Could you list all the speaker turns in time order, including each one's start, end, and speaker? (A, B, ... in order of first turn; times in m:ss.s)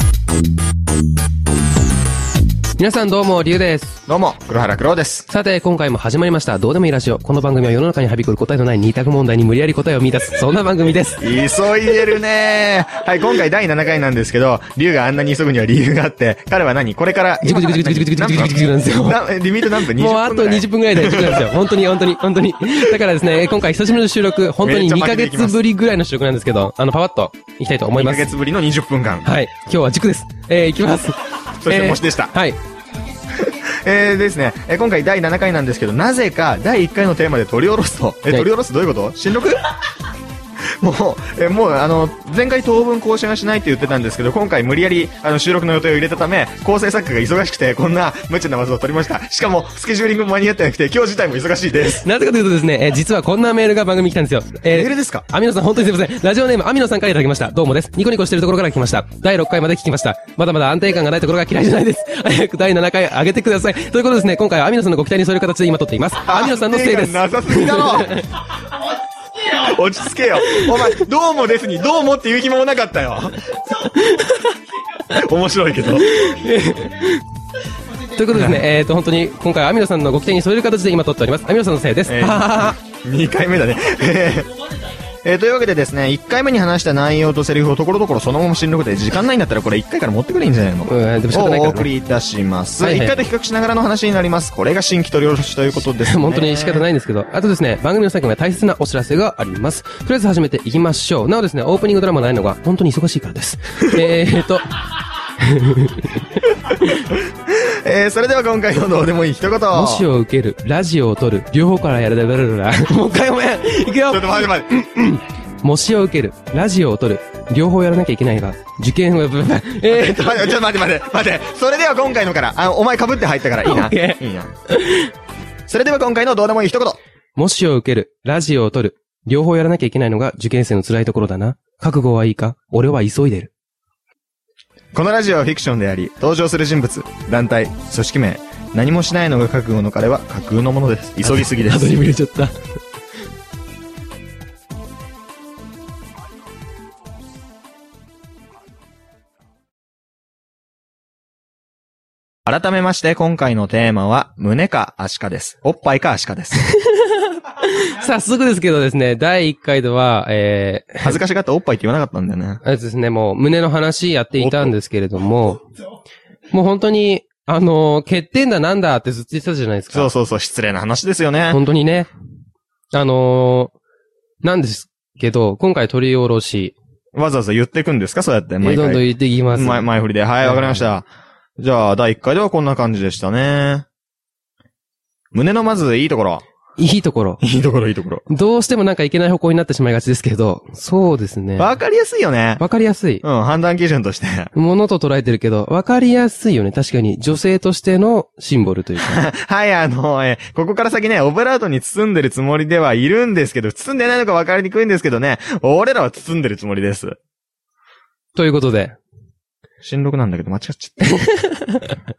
0:02.8-0:04.0 A
0:04.1-0:05.3 B
0:05.3-0:11.3 A
0:11.2-0:21.5 B
0:17.4-0:19.2 A
0:19.8-0:28.3 A
0:24.6-0:25.6 B
0:27.9-0:29.3 B
0:29.2-0:32.6 A
0:31.6-0:32.3 B
0:33.3-0:39.7 B
0:40.7-0:52.0 B
0:52.0-1:08.2 A
0:54.7-0:55.3 B
1:06.3-1:08.2 B
1:09.4-1:13.9 B
1:10.4-1:10.7 A
1:13.8-1:14.6 A
1:15.1-1:16.2 B
1:16.0-1:17.2 A
1:18.0-1:22.8 A
1:18.3-1:18.7 B
1:22.1-1:24.5 B
1:25.2-1:36.8 B
1:30.9-1:31.9 A
1:32.8-1:33.2 A
1:36.0-1:44.7 A
1:45.4-1:47.1 A
1:47.1-1:50.1 B
1:49.7-2:00.5 A
1:54.1-1:54.7 B
1:59.9-2:04.5 B
2:03.6-2:05.1 A
2:05.7-2:07.0 B
2:07.4-2:13.5 A
2:14.9-2:21.9 B
2:21.2-2:22.6 A
2:32.5-2:36.6 B
2:36.6-2:41.2 A
2:41.0-2:42.6 B
2:42.6-2:45.7 A
2:44.4-2:44.7 B
2:46.5-2:50.1 A
2:49.9-2:51.6 B
2:51.5-2:52.1 A
2:52.9-2:53.7 A
2:54.4-2:56.8 A
2:57.1-3:01.1 B
2:58.6-2:59.9 A
3:00.4-3:00.9 A
3:01.6-3:03.9 B
3:05.3-3:06.4 B
3:06.8-3:07.4 A
3:07.4-3:08.2 B
3:08.3-3:11.7 A
3:11.6-3:12.6 B
3:12.6-3:13.2 A
3:13.2-3:14.5 B
3:14.6-3:19.2 A
3:19.0-3:27.2 B
3:28.4-3:29.0 A
3:29.8-3:31.2 B
3:31.0-3:32.0 A